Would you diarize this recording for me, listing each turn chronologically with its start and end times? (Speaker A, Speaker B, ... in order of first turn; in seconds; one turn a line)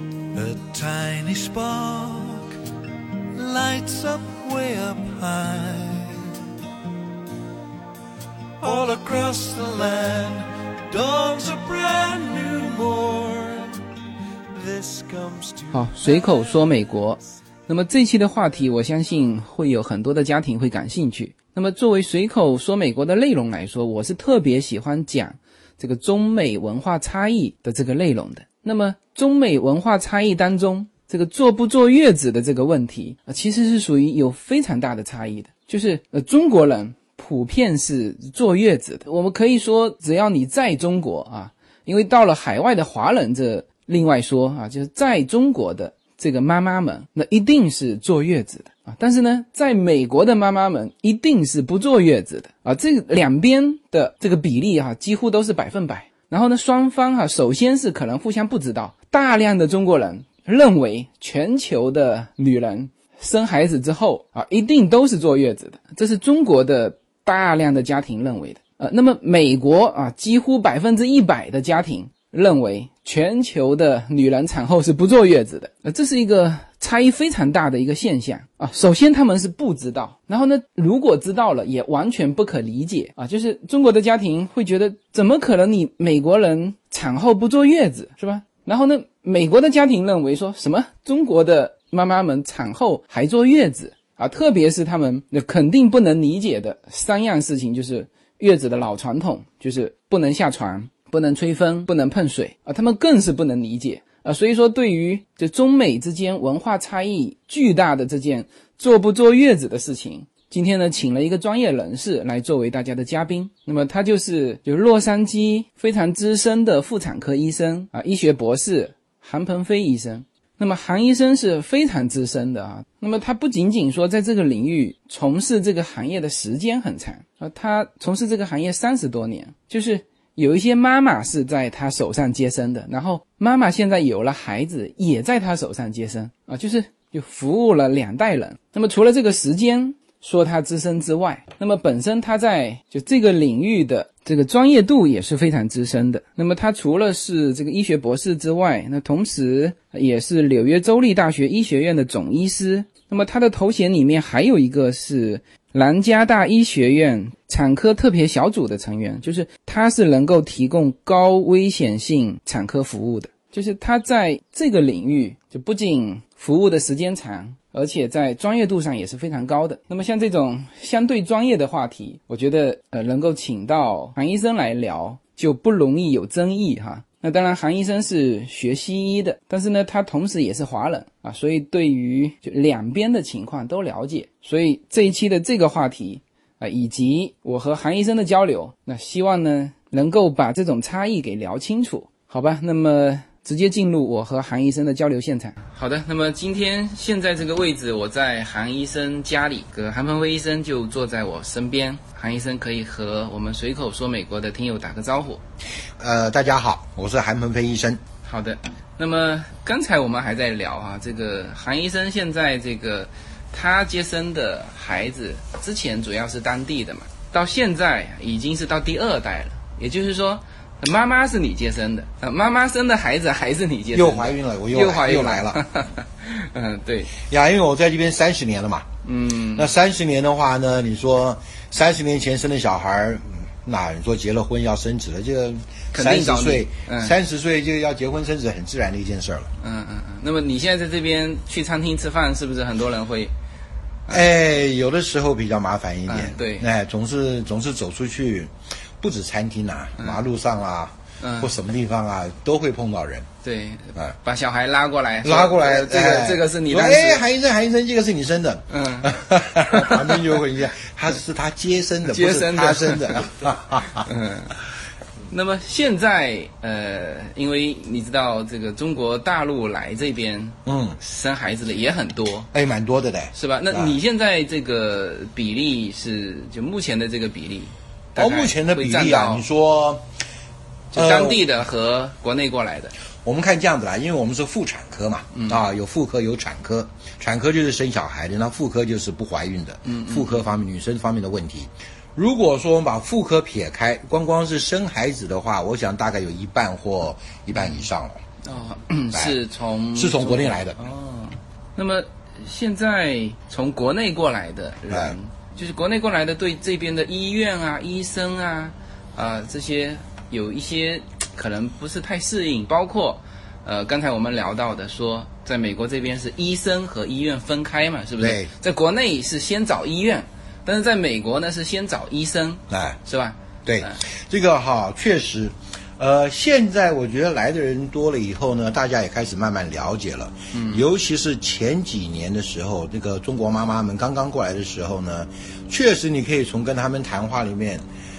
Speaker A: 0.3-2.6
Speaker A: 3.3-6.4
Speaker A: 8.6-13.8
Speaker A: 14.5-16.5
Speaker B: 15.7-205.4
Speaker C: 206.0-208.0
Speaker B: 208.2-227.1
Speaker C: 223.9-225.6
Speaker C: 227.2-228.9
Speaker B: 229.0-229.7
Speaker C: 229.5-239.5
Speaker B: 235.9-237.2
Speaker B: 239.6-243.3
Speaker C: 244.1-253.3
Speaker B: 246.1-246.7
Speaker B: 250.0-250.2
Speaker B: 251.2-251.6
Speaker B: 253.4-257.2
Speaker C: 255.2-264.1
Speaker B: 258.7-260.4
Speaker B: 262.0-263.3
Speaker B: 264.0-264.5
Speaker B: 265.3-272.5
Speaker C: 270.7-271.0
Speaker C: 272.5-274.0
Speaker B: 273.3-279.4
Speaker C: 278.2-280.1
Speaker C: 280.9-281.4
Speaker B: 280.9-282.9
Speaker C: 283.2-298.2
Speaker B: 285.3-285.6
Speaker B: 289.9-290.4
Speaker B: 298.4-324.0
Speaker C: 299.1-299.4
Speaker C: 299.9-300.8
Speaker C: 304.9-305.2
Speaker C: 318.2-318.5
Speaker C: 322.7-323.0
Speaker C: 323.7-337.8
Speaker B: 330.5-330.8